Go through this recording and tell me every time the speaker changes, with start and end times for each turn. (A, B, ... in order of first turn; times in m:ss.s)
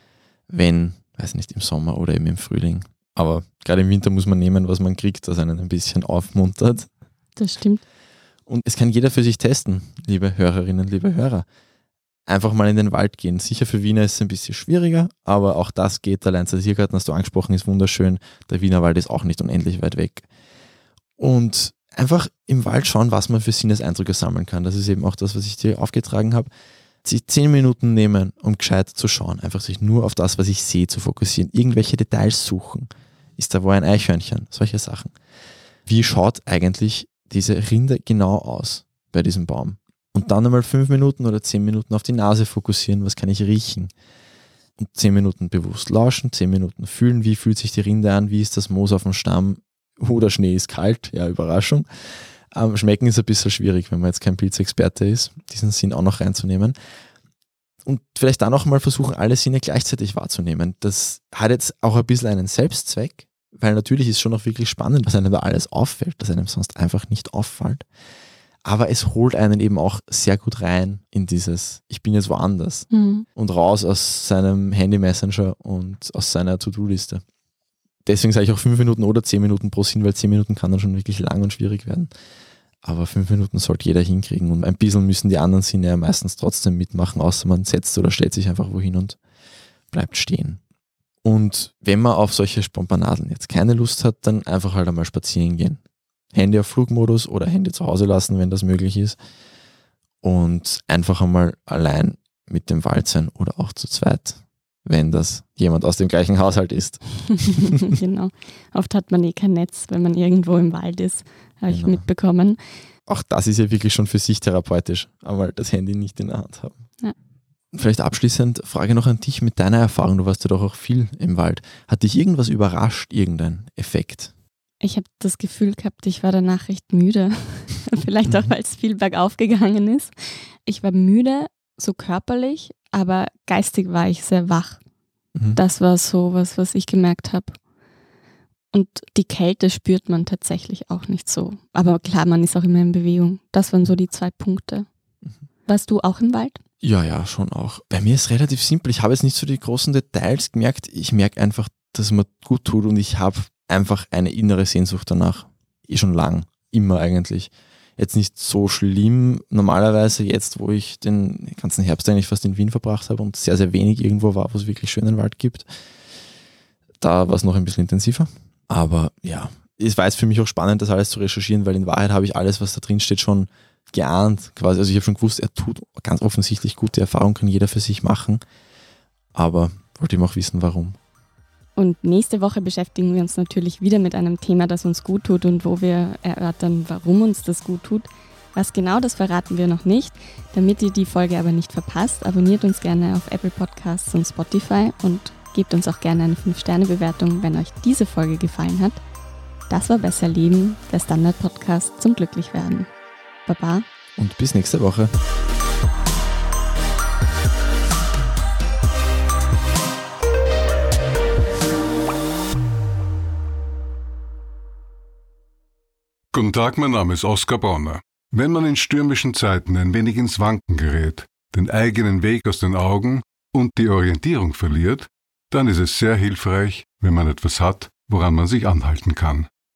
0:00.5-0:06.9 A
0:07.4-0:07.8 B
0:08.5-0:11.4 A
0:12.3-0:20.2 A
0:21.2-0:26.5 A
0:27.0-0:35.1 A
0:35.8-0:43.9 A
0:44.8-0:51.8 A
0:52.5-0:56.7 A
0:57.8-1:07.8 A
1:08.6-1:17.2 A
1:12.9-1:13.2 B
1:18.0-1:22.1 A
1:22.8-1:29.2 A
1:29.9-1:30.6 A
1:31.2-1:35.8 A
1:36.3-1:39.2 A
1:40.2-1:47.8 A
1:47.4-1:52.6 B
1:51.7-1:52.0 A
1:53.1-1:56.8 A
1:57.7-2:04.3 A
2:04.8-2:14.8 B
2:15.5-2:17.6 B
2:18.7-2:24.9 B
2:25.6-2:26.6 B
2:26.8-2:45.7 A
2:47.0-2:58.4 A
2:59.3-3:01.0 A
3:01.8-3:19.0 B
3:19.7-3:22.9 B
3:23.4-3:23.8 B
3:24.2-3:25.1 A
3:36.3-3:49.5 C